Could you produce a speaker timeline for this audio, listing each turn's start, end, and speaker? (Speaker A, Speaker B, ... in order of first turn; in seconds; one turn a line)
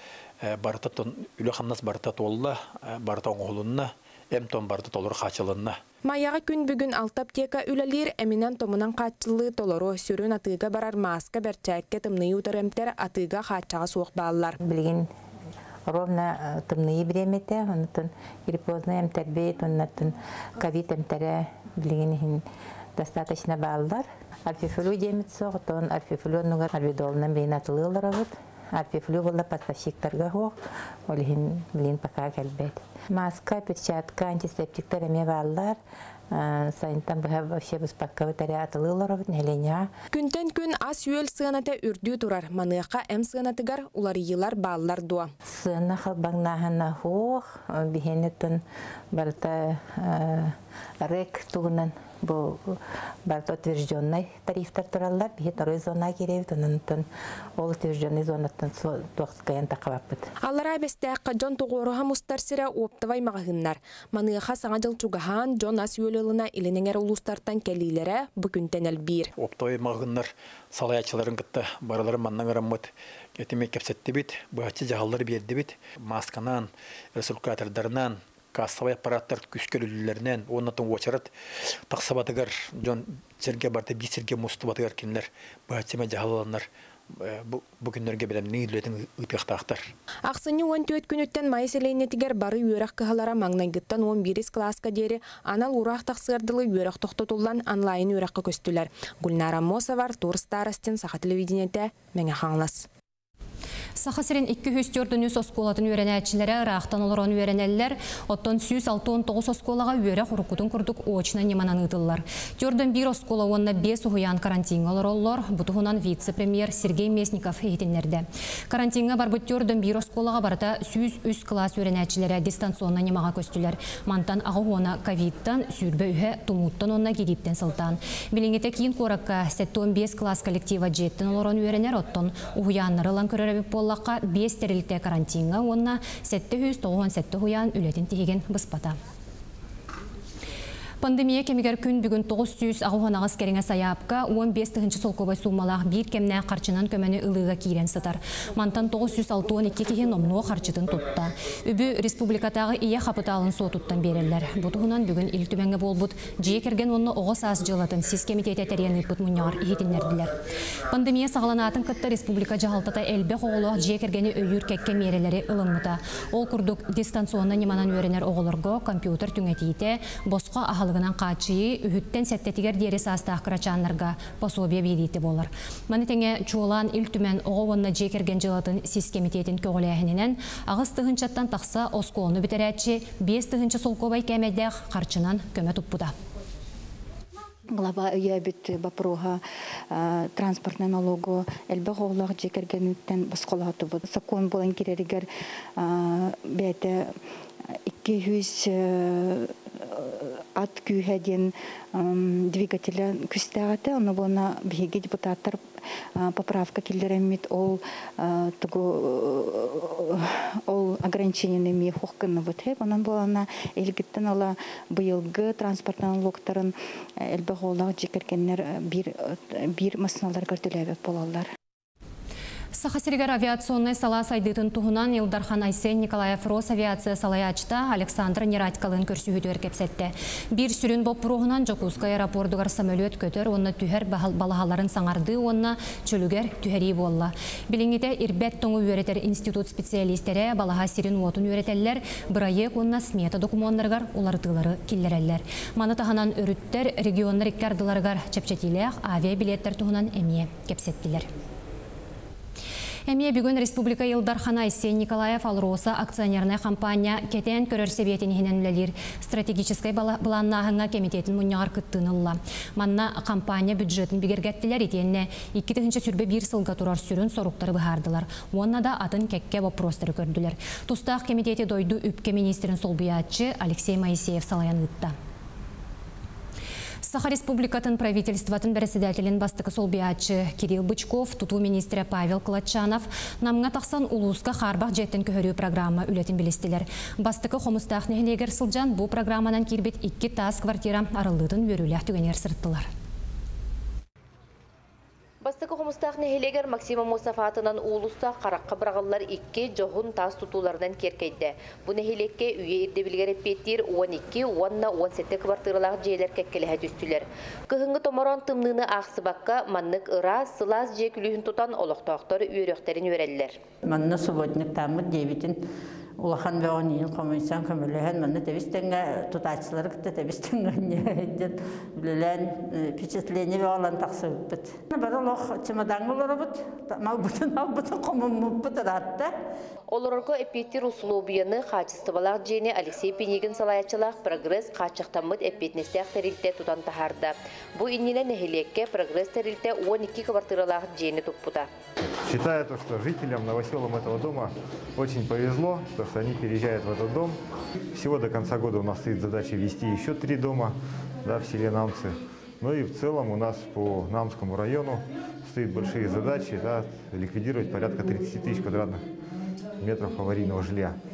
Speaker A: 0.4-5.8
Speaker B: 6.1-14.6
Speaker C: 14.6-15.1
Speaker C: 15.9-22.4
Speaker C: 23.0-30.6
Speaker C: 31.1-35.8
Speaker C: 36.3-39.9
Speaker B: 40.1-45.3
Speaker C: 45.5-48.6
Speaker C: 49.1-57.0
Speaker C: 57.6-60.3
Speaker B: 60.4-69.3
Speaker A: 69.4-81.3
Speaker A: 81.9-89.9
Speaker B: 90.3-102.9
Speaker D: 104.0-139.0
Speaker D: 141.0-186.1
Speaker E: 187.7-197.2
Speaker E: 197.9-221.5
Speaker D: 222.8-251.3
Speaker D: 253.1-275.1
Speaker D: 277.0-292.9
Speaker F: 295.4-313.6
Speaker G: 313.8-315.6
Speaker G: 316.2-329.3
Speaker F: 329.9-341.7
Speaker H: 342.2-347.4
Speaker H: 347.9-359.0
Speaker H: 359.8-361.0